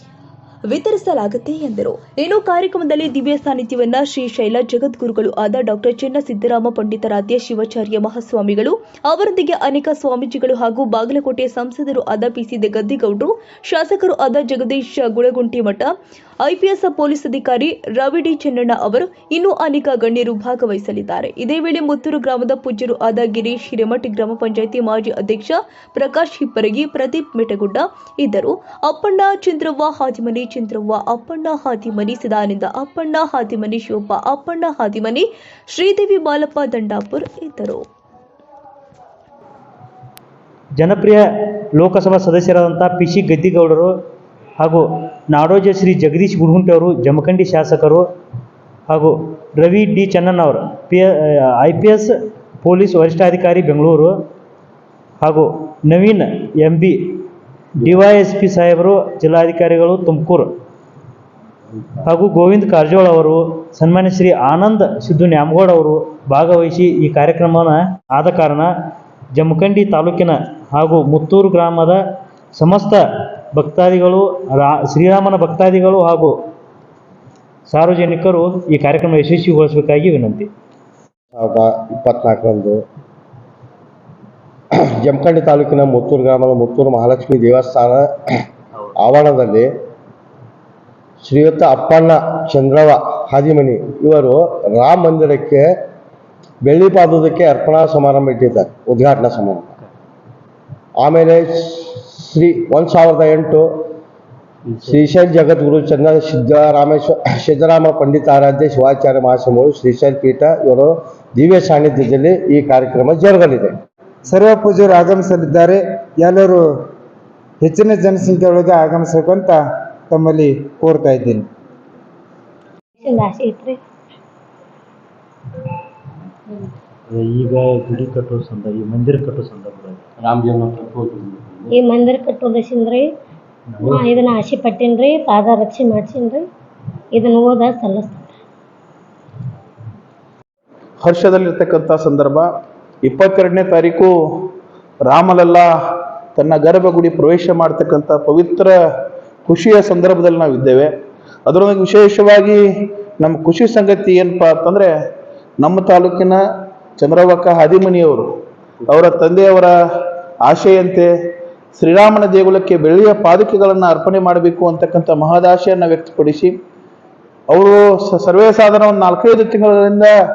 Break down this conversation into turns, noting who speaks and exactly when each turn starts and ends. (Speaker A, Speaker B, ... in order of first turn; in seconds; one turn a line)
Speaker A: 0.7-15.9
Speaker A: 16.4-37.8
Speaker B: 40.8-43.9
Speaker B: 44.6-48.1
Speaker B: 48.9-54.1
Speaker B: 55.2-57.2
Speaker B: 57.8-60.5
Speaker B: 62.0-68.7
Speaker B: 69.3-72.0
Speaker B: 72.5-73.0
Speaker B: 73.5-76.3
Speaker B: 77.7-80.5
Speaker C: 81.3-82.8
Speaker C: 84.9-88.2
Speaker C: 89.0-89.7
Speaker C: 91.2-95.7
Speaker C: 96.7-99.7
Speaker C: 101.0-103.9
Speaker C: 104.8-113.8
Speaker D: 114.3-116.7
Speaker D: 117.6-121.5
Speaker E: 123.0-123.8
Speaker B: 127.1-131.7
Speaker E: 131.7-133.1
Speaker E: 133.8-136.5
Speaker B: 133.8-134.1
Speaker E: 137.1-138.4
Speaker F: 141.0-142.5
Speaker F: 143.1-144.1
Speaker F: 145.0-145.7
Speaker F: 146.3-148.7
Speaker F: 149.5-150.9
Speaker F: 151.5-152.6
Speaker F: 153.2-154.9
Speaker F: 155.6-156.4
Speaker F: 157.0-158.3
Speaker F: 158.9-159.7
Speaker F: 160.4-161.1
Speaker F: 161.8-166.5
Speaker F: 167.5-170.1